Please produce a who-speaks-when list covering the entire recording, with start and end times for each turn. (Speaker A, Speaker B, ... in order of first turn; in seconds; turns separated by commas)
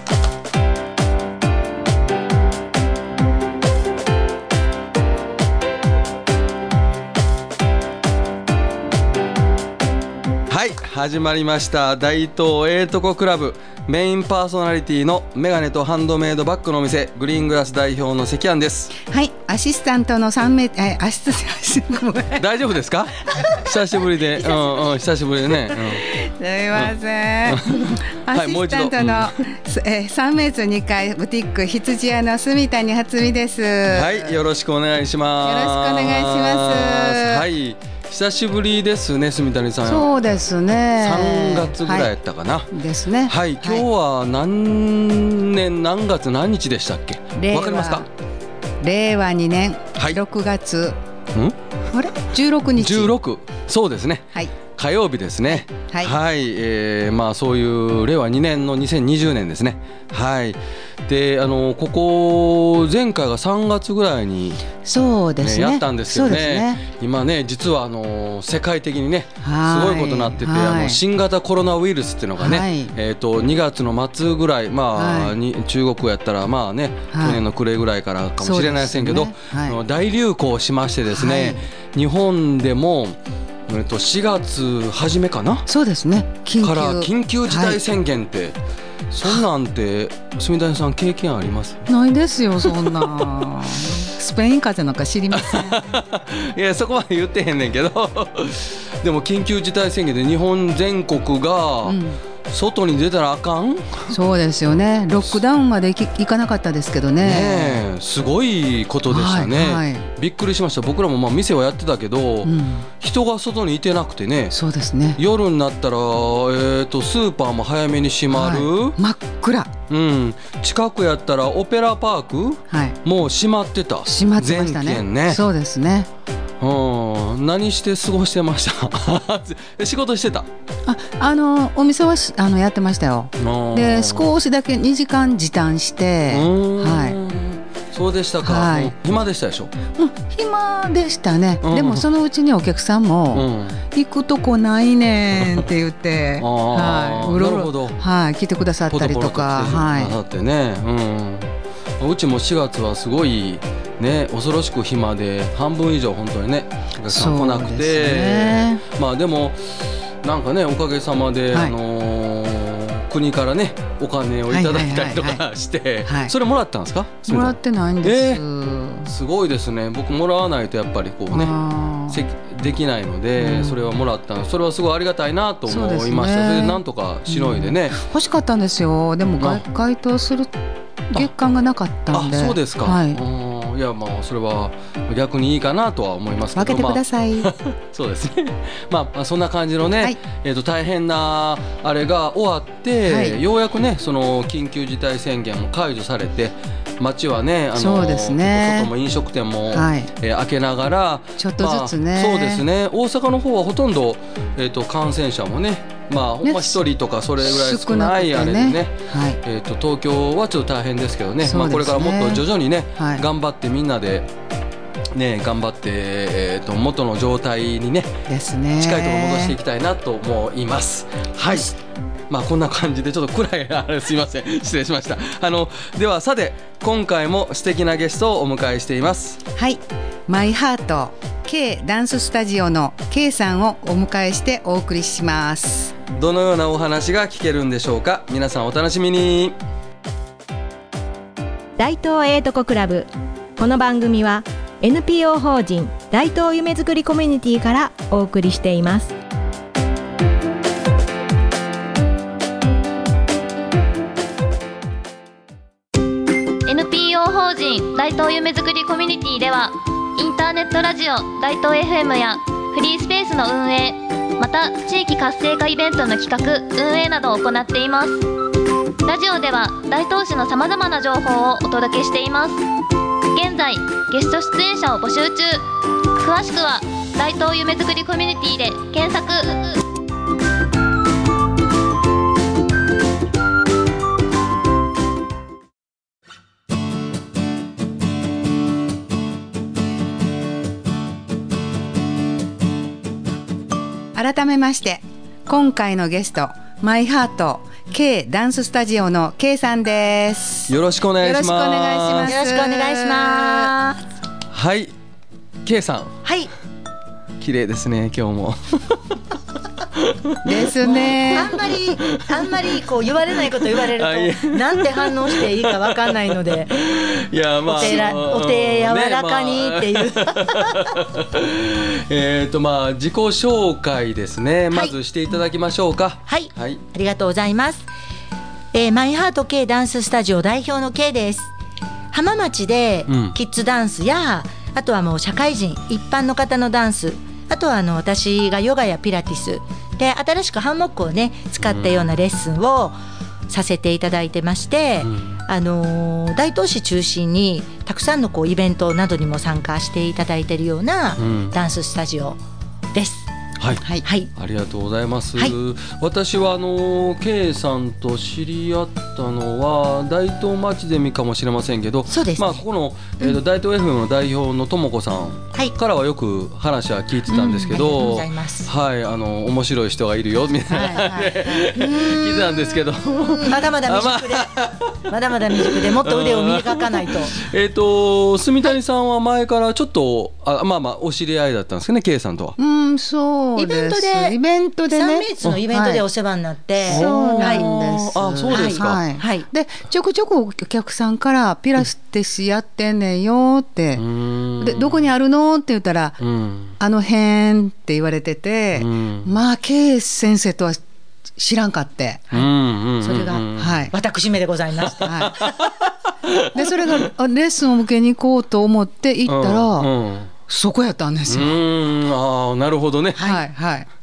Speaker A: 10.5-19.0, Speaker B: 19.0-22.5, Speaker A: 22.4-26.0, Speaker B: 25.7-34.4, Speaker A: 27.5-29.3, Speaker A: 33.9-40.1, Speaker B: 35.4-37.5, Speaker B: 39.8-42.1, Speaker A: 41.0-42.7, Speaker B: 42.7-43.9, Speaker A: 43.3-48.1, Speaker B: 47.4-48.1, Speaker B: 48.8-51.0, Speaker B: 51.9-53.1, Speaker A: 52.8-64.7, Speaker B: 55.5-56.1, Speaker B: 64.8-66.8, Speaker A: 65.4-85.7, Speaker B: 69.4-71.0, Speaker B: 72.4-72.9, Speaker B: 74.9-75.3, Speaker B: 77.1-77.4, Speaker B: 78.4-79.8, Speaker B: 81.1-81.7, Speaker B: 85.7-87.8, Speaker A: 86.6-88.6, Speaker A: 89.1-91.9, Speaker B: 91.9-95.8, Speaker A: 92.7-93.4, Speaker A: 95.4-104.2, Speaker B: 101.8-102.2, Speaker B: 104.1-107.8, Speaker A: 107.2-114.6, Speaker B: 109.1-110.1, Speaker B: 112.4-112.9, Speaker B: 114.5-115.2, Speaker A: 115.2-119.0, Speaker B: 118.3-119.7, Speaker A: 119.9-125.4, Speaker B: 122.7-123.0, Speaker B: 124.0-126.1, Speaker A: 126.6-130.5, Speaker B: 130.9-137.2, Speaker A: 133.4-134.3, Speaker A: 136.3-139.7, Speaker B: 138.4-138.9, Speaker B: 140.0-150.2, Speaker A: 141.6-142.0, Speaker A: 143.3-143.8, Speaker A: 146.4-148.0, Speaker A: 148.9-168.4, Speaker B: 157.1-158.8, Speaker B: 164.5-165.4, Speaker B: 166.1-166.3, Speaker B: 167.3-169.1, Speaker A: 169.0-171.6, Speaker B: 171.3-172.2, Speaker A: 172.1-178.0, Speaker B: 173.4-173.9, Speaker B: 175.7-180.5, Speaker B: 181.1-183.2, Speaker A: 182.1-214.3, Speaker B: 186.6-187.5, Speaker B: 193.0-193.4, Speaker B: 197.8-198.9, Speaker B: 199.7-200.1, Speaker B: 201.4-202.7, Speaker B: 206.4-206.8, Speaker B: 207.4-209.4, Speaker B: 211.4-213.2, Speaker A: 215.1-218.1, Speaker B: 218.3-219.6, Speaker A: 218.8-221.8, Speaker A: 222.3-229.4, Speaker B: 229.6-235.9, Speaker A: 236.1-239.6, Speaker C: 241.8-249.1, Speaker D: 256.7-268.2, Speaker D: 269.1-272.6, Speaker D: 273.3-275.7, Speaker D: 276.2-279.8, Speaker B: 294.1-303.7, Speaker A: 300.7-302.3, Speaker E: 302.2-304.0, Speaker A: 304.5-304.9, Speaker A: 305.6-306.2, Speaker E: 306.2-306.5, Speaker A: 307.4-309.2, Speaker A: 309.9-312.8, Speaker B: 310.4-311.6, Speaker E: 310.8-316.7, Speaker A: 313.5-326.8, Speaker E: 317.6-320.8, Speaker B: 317.8-318.1, Speaker E: 326.3-327.9, Speaker E: 328.7-331.5, Speaker E: 332.1-343.0, Speaker A: 333.1-333.4, Speaker A: 341.6-341.9, Speaker E: 343.5-352.4, Speaker A: 345.0-345.3, Speaker A: 351.2-351.6, Speaker E: 352.9-353.3, Speaker A: 353.6-375.0, Speaker E: 354.0-354.3, Speaker E: 362.1-362.6, Speaker E: 367.3-368.7, Speaker B: 370.7-371.7, Speaker E: 370.8-374.6, Speaker E: 375.1-377.4, Speaker A: 375.6-382.6, Speaker B: 382.6-386.1, Speaker E: 383.6-387.7, Speaker B: 386.9-394.1, Speaker A: 386.9-389.1, Speaker E: 388.5-389.5, Speaker A: 394.0-395.0, Speaker B: 394.6-396.2, Speaker A: 396.2-396.8, Speaker B: 396.8-400.8, Speaker A: 398.8-399.3, Speaker B: 401.4-402.3, Speaker A: 402.3-403.9, Speaker E: 403.0-405.5, Speaker B: 403.6-403.9, Speaker B: 405.0-405.4, Speaker A: 405.1-407.1, Speaker B: 406.5-409.9, Speaker A: 409.3-410.3, Speaker B: 410.5-411.6, Speaker A: 411.3-413.3, Speaker B: 413.2-413.9, Speaker E: 413.2-413.4